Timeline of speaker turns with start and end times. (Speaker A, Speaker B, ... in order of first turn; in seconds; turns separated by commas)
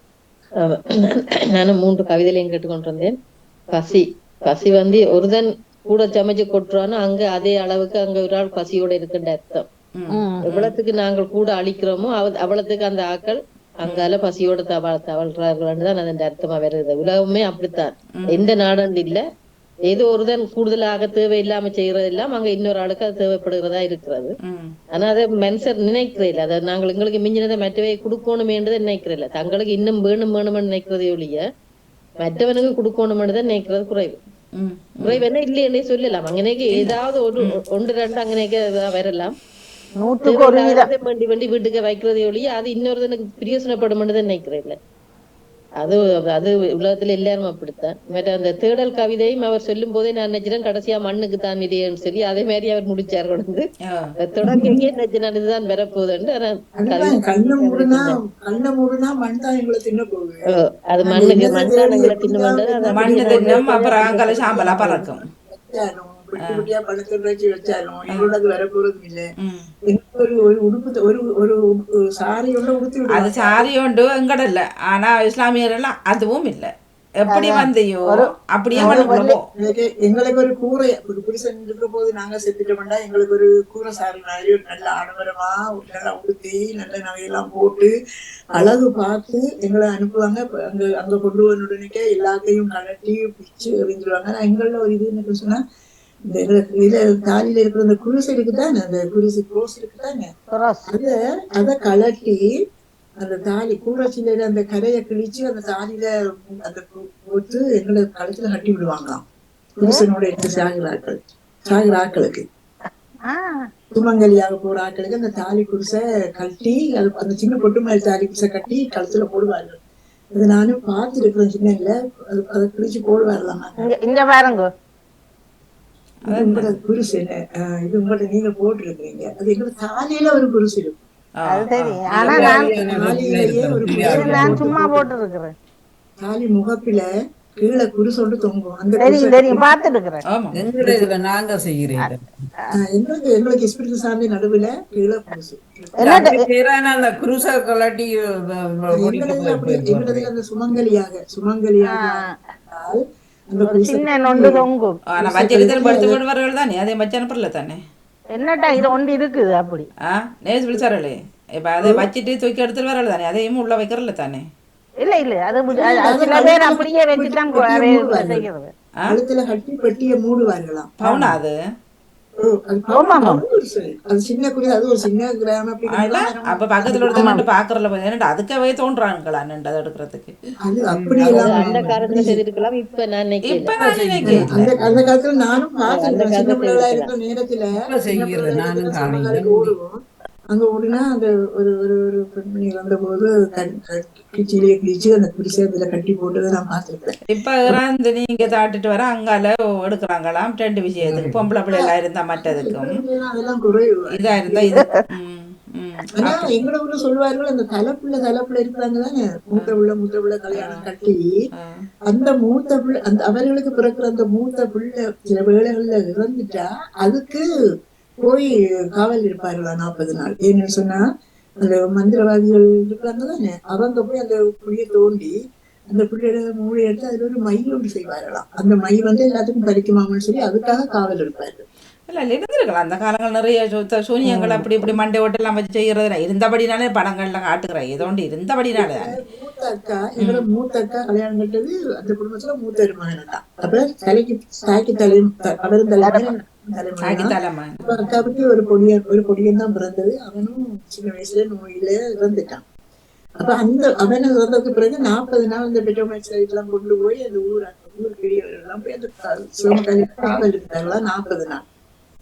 Speaker A: 0.6-3.1, Speaker A: 3.7-9.7, Speaker B: 10.0-10.6, Speaker C: 10.2-10.5, Speaker A: 10.5-19.2, Speaker B: 18.2-18.4, Speaker A: 19.9-24.4, Speaker B: 24.4-24.8, Speaker A: 24.9-31.4, Speaker A: 32.2-34.2, Speaker B: 34.6-35.2, Speaker A: 35.0-39.4, Speaker B: 36.7-37.6, Speaker C: 40.0-40.9, Speaker A: 40.3-44.8, Speaker A: 45.8-53.7, Speaker A: 54.2-58.2, Speaker D: 54.4-54.8, Speaker D: 56.8-60.4, Speaker A: 60.5-65.0, Speaker D: 61.0-69.2, Speaker B: 62.9-65.2, Speaker B: 66.4-66.7, Speaker B: 69.4-69.7, Speaker D: 69.9-71.6, Speaker D: 72.1-73.7, Speaker B: 73.2-76.7, Speaker B: 77.3-79.4, Speaker C: 77.3-79.4, Speaker D: 78.8-87.9, Speaker D: 88.6-95.6, Speaker D: 96.3-100.3, Speaker C: 100.5-100.9, Speaker D: 100.9-102.4, Speaker D: 103.2-109.2, Speaker D: 109.8-112.5, Speaker C: 113.3-113.6, Speaker D: 113.9-119.8, Speaker D: 120.3-123.8, Speaker C: 123.8-124.7, Speaker B: 126.3-126.7, Speaker D: 126.3-131.0, Speaker B: 131.4-132.0, Speaker C: 131.5-132.9, Speaker E: 132.1-134.7, Speaker D: 132.8-135.1, Speaker C: 134.0-135.5, Speaker D: 136.2-137.1, Speaker D: 137.6-139.7, Speaker C: 139.0-140.2, Speaker B: 140.3-140.6, Speaker E: 140.5-142.3, Speaker D: 140.8-141.1, Speaker D: 142.8-146.2, Speaker C: 146.0-146.5, Speaker E: 146.0-150.3, Speaker D: 148.9-154.6, Speaker C: 151.8-152.4, Speaker C: 153.6-155.1, Speaker D: 155.2-156.2, Speaker B: 155.2-157.8, Speaker C: 158.4-159.9, Speaker B: 160.1-164.5, Speaker C: 165.0-168.7, Speaker D: 165.7-168.5, Speaker D: 169.1-171.4, Speaker B: 171.0-171.5, Speaker D: 172.4-177.4, Speaker C: 172.9-173.4, Speaker B: 175.9-180.3, Speaker C: 177.1-177.4, Speaker D: 180.7-182.4, Speaker E: 180.9-181.3, Speaker A: 181.2-183.8, Speaker B: 183.4-184.7, Speaker E: 183.8-185.1, Speaker D: 184.2-190.0, Speaker A: 185.9-187.1, Speaker E: 187.8-189.8, Speaker D: 190.5-197.2, Speaker B: 197.3-202.9, Speaker E: 201.0-201.4, Speaker D: 201.7-204.8, Speaker B: 204.2-206.5, Speaker C: 204.7-205.1, Speaker D: 206.2-211.3, Speaker B: 210.5-210.8, Speaker B: 211.6-211.8, Speaker D: 212.1-217.4, Speaker D: 218.2-221.0, Speaker D: 221.6-225.3, Speaker D: 225.9-231.7, Speaker B: 232.1-239.0, Speaker D: 234.2-234.9, Speaker D: 238.7-252.6, Speaker B: 240.2-240.4, Speaker C: 246.0-246.3, Speaker B: 247.0-247.9, Speaker D: 253.4-261.6